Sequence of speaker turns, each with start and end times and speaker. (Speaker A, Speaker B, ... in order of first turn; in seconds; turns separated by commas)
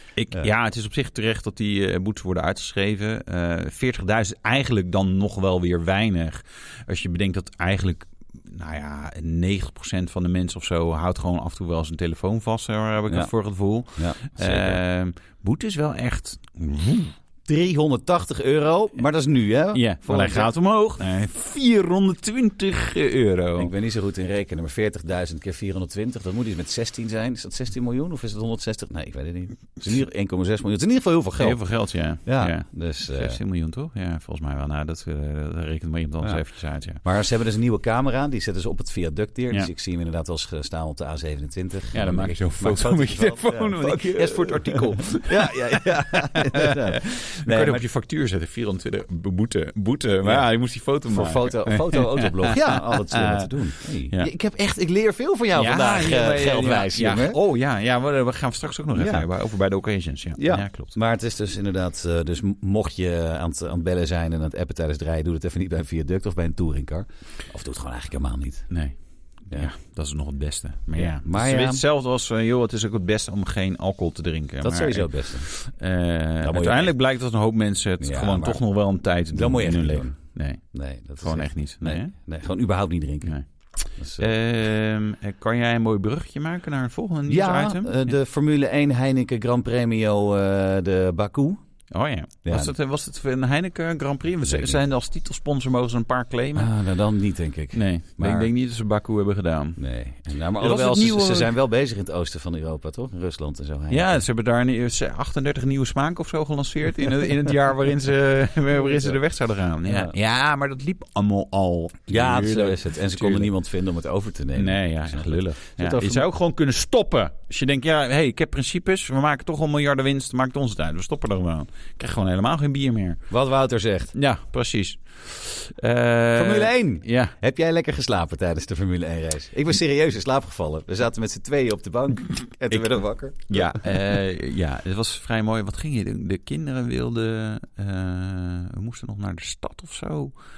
Speaker A: 0.1-17.1, Speaker B: 13.9-14.8, Speaker B: 17.4-20.5, Speaker A: 19.7-23.7, Speaker B: 23.6-33.4, Speaker A: 31.4-37.0, Speaker B: 37.0-47.8, Speaker A: 41.9-54.3, Speaker B: 50.2-50.5, Speaker B: 51.0-57.4, Speaker A: 55.5-60.9, Speaker B: 58.9-59.3, Speaker B: 60.4-68.7, Speaker A: 68.7-82.1, Speaker B: 71.0-71.8, Speaker B: 74.6-75.5, Speaker B: 76.4-76.9, Speaker B: 78.0-78.6, Speaker B: 79.3-80.2, Speaker B: 80.7-83.4, Speaker B: 83.9-84.3, Speaker A: 84.2-88.0, Speaker B: 87.3-91.6, Speaker A: 91.9-96.7, Speaker B: 92.4-92.7, Speaker B: 94.4-94.8, Speaker B: 96.5-98.5, Speaker A: 97.7-99.8, Speaker B: 99.8-104.2, Speaker A: 100.6-101.5, Speaker A: 103.9-113.5, Speaker B: 108.9-109.1, Speaker B: 109.8-110.1, Speaker B: 112.1-116.2, Speaker A: 114.5-123.2, Speaker B: 123.3-124.2, Speaker A: 124.1-127.3, Speaker B: 126.3-133.8, Speaker A: 132.7-132.9, Speaker A: 133.5-140.3